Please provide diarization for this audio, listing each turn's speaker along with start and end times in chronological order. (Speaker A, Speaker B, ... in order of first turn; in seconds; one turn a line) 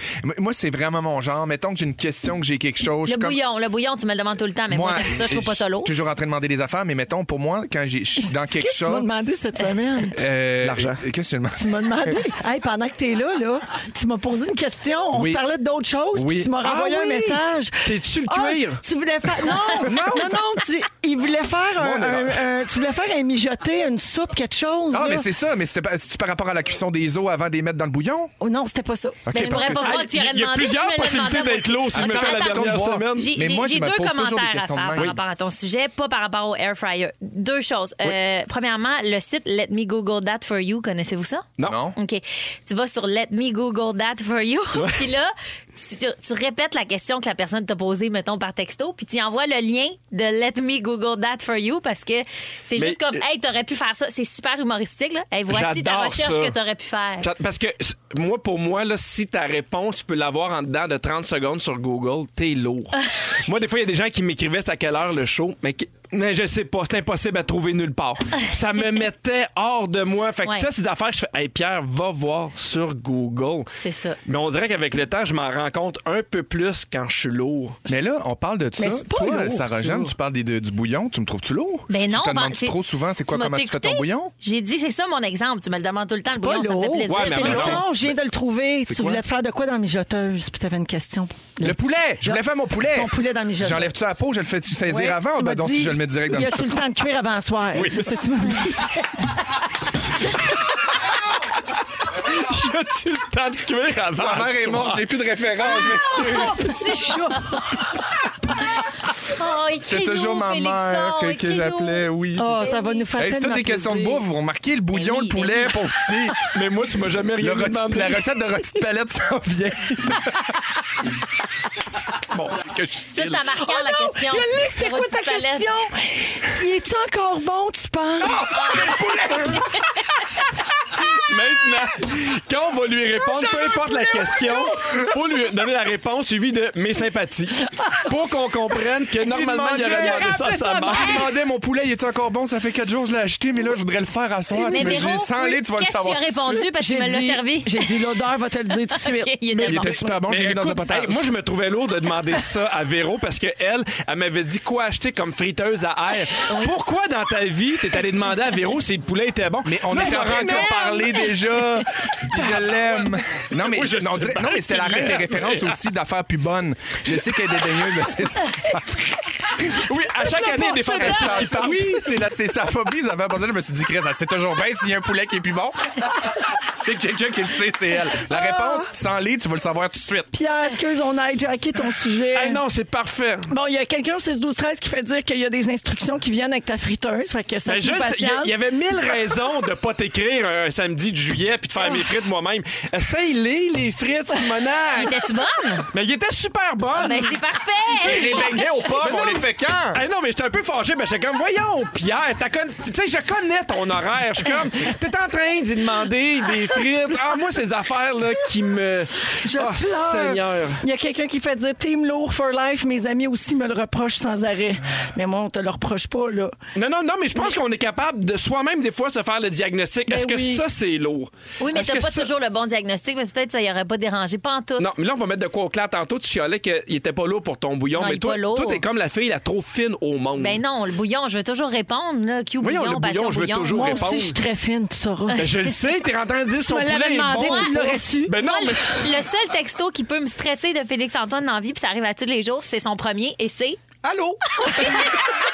Speaker A: 0.2-3.4
Speaker B: 3.0-5.9
Speaker A: 4.7-9.1
Speaker C: 8.3-10.2
Speaker A: 10.1-12.2
Speaker D: 10.6-11.0
Speaker C: 11.6-25.3
Speaker A: 15.1-15.4
Speaker A: 16.1-16.6
Speaker D: 16.6-18.8
Speaker D: 19.8-20.4
Speaker D: 21.8-22.4
Speaker A: 24.9-28.3
Speaker C: 28.4-29.6
Speaker A: 29.2-30.0
Speaker B: 29.3-57.3
Speaker D: 29.6-33.4
Speaker A: 31.9-35.1
Speaker A: 41.6-42.0
Speaker D: 44.7-45.1
Speaker D: 52.8-53.2
Speaker D: 55.5-56.6
Speaker D: 57.2-73.7
Speaker B: 73.8-74.2
Speaker D: 74.3-77.8
Speaker A: 77.9-84.3
Speaker C: 78.8-80.1
Speaker B: 81.9-87.8
Speaker C: 86.3-94.0
Speaker D: 87.1-87.8
Speaker A: 87.6-88.2
Speaker A: 88.9-89.2
Speaker A: 91.6-96.7
Speaker C: 94.9-99.1
Speaker D: 97.7-98.7
Speaker D: 102.2-105.1
Speaker A: 104.2-106.7
Speaker C: 106.0-107.9
Speaker B: 106.6-107.6
Speaker B: 109.2-113.1
Speaker A: 109.8-116.4
Speaker C: 112.4-114.2
Speaker B: 114.9-115.8
Speaker D: 116.5-118.2
Speaker A: 117.4-120.7
Speaker A: 122.2-123.5
Speaker B: 123.1-125.7
Speaker C: 123.6-128.6
Speaker A: 128.2-129.7
Speaker D: 131.1-141.3
Speaker A: 133.4-133.9
Speaker A: 139.2-146.7
Speaker B: 140.9-141.3
Speaker B: 144.6-148.0
Speaker C: 144.7-145.1
Speaker C: 146.8-150.0
Speaker B: 149.0-150.1
Speaker A: 149.6-151.3
Speaker D: 149.7-160.8
Speaker B: 156.5-156.8
Speaker A: 159.7-169.0
Speaker B: 160.1-161.3
Speaker D: 162.3-165.8
Speaker D: 169.7-172.0
Speaker C: 170.2-171.8
Speaker A: 170.9-180.3
Speaker C: 178.3-178.9
Speaker C: 180.3-182.6
Speaker D: 182.3-183.5
Speaker C: 183.5-188.6
Speaker D: 187.7-195.2
Speaker B: 194.9-195.9
Speaker D: 195.9-197.4
Speaker B: 196.9-198.7
Speaker A: 198.0-200.0
Speaker D: 198.0-198.5
Speaker D: 199.9-210.8
Speaker C: 209.4-216.6
Speaker D: 216.8-222.3
Speaker C: 220.1-220.6
Speaker B: 221.6-224.9
Speaker D: 224.8-230.6
Speaker B: 228.0-228.8
Speaker B: 230.4-234.2
Speaker D: 232.6-234.4
Speaker C: 233.7-235.4
Speaker B: 235.3-235.6
Speaker D: 235.4-239.1
Speaker C: 236.7-238.4
Speaker B: 237.4-237.7
Speaker B: 238.4-243.8
Speaker A: 244.0-245.2
Speaker B: 244.6-245.3